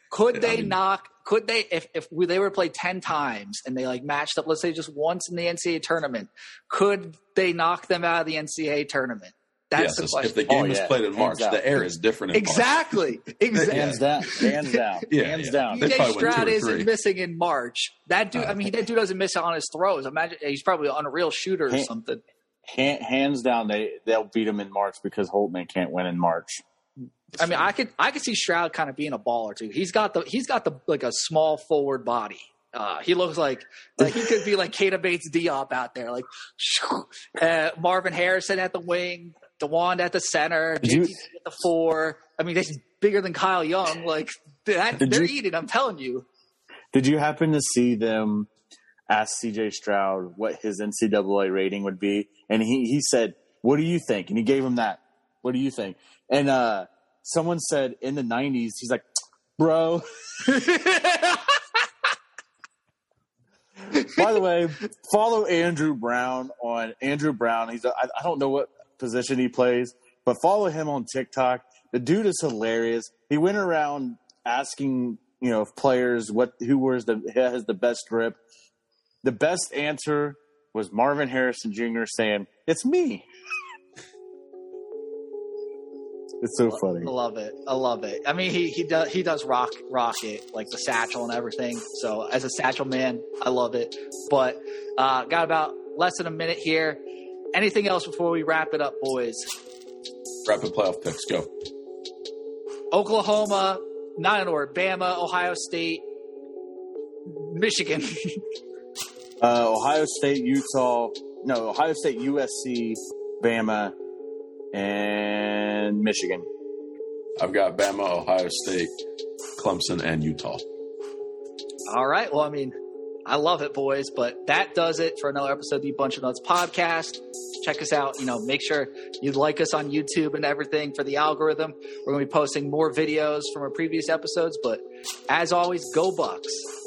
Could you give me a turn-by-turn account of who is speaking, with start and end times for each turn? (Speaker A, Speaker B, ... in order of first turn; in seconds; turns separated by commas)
Speaker A: 0.1-10.4, Speaker B: 0.3-0.8, Speaker B: 9.8-13.0, Speaker C: 10.5-11.9, Speaker A: 12.3-14.5, Speaker B: 13.5-14.5, Speaker C: 13.7-15.9, Speaker B: 15.1-16.9, Speaker A: 15.7-22.2, Speaker B: 18.4-18.7, Speaker C: 22.7-26.6, Speaker A: 27.4-46.3, Speaker C: 34.0-34.4, Speaker C: 40.8-41.2, Speaker C: 45.0-45.3, Speaker C: 46.9-48.5, Speaker C: 49.1-59.0, Speaker C: 59.6-60.1, Speaker A: 60.5-61.6, Speaker A: 63.9-64.3, Speaker C: 64.1-78.4, Speaker C: 79.2-83.3, Speaker C: 86.4-87.1, Speaker A: 86.7-97.0, Speaker A: 97.5-99.5, Speaker B: 100.5-101.5, Speaker A: 102.9-106.1, Speaker A: 107.2-108.4, Speaker C: 109.4-114.0, Speaker C: 114.7-116.5, Speaker B: 117.4-118.9, Speaker B: 119.6-120.6, Speaker A: 121.9-136.7